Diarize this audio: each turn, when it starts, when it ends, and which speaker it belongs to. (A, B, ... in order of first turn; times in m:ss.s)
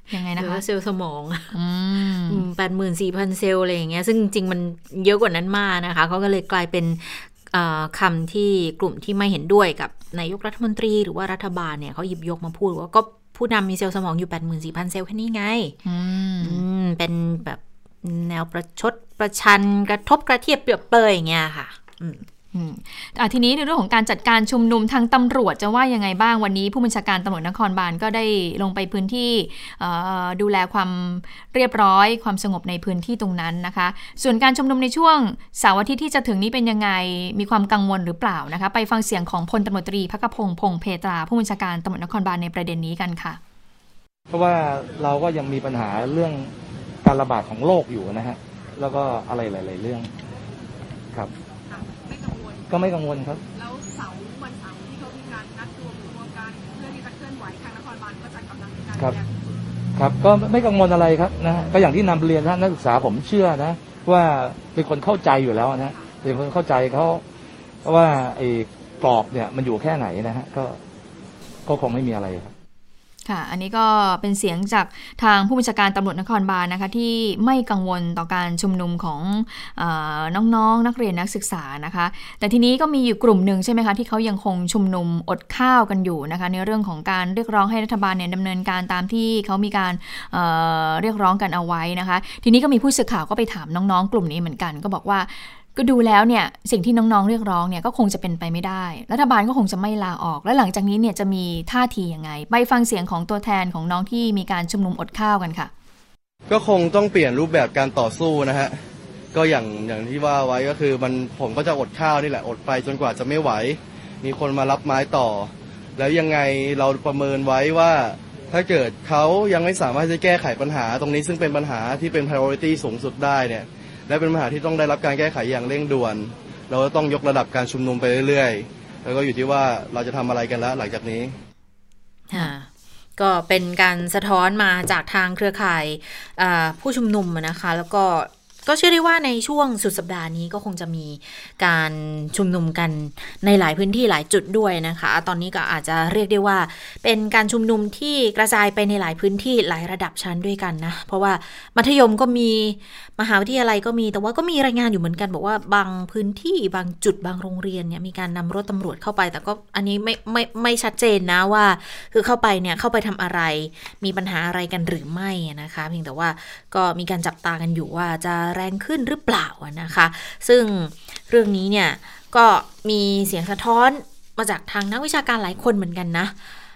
0:00.1-0:00.6 A
0:00.3-0:01.6 B
0:01.5-0:02.5 A
0:02.3-0:15.8 B
0:15.8-0:16.6 A
0:16.4-0:22.2 B
0:22.5-0:43.4 A
0:44.3-0:46.5 C
0:47.0-0:50.1 C
0:51.7-0:52.9 D
0:52.7-0:53.4 C
0:53.5-0:59.4 D
1:00.0-1:07.2 C
1:05.7-1:06.2 D
1:07.8-1:10.8 C
1:11.7-1:12.5 C
1:13.2-1:45.7 A
1:46.5-1:48.8 E
1:49.3-2:11.3 E
2:12.3-2:56.4 B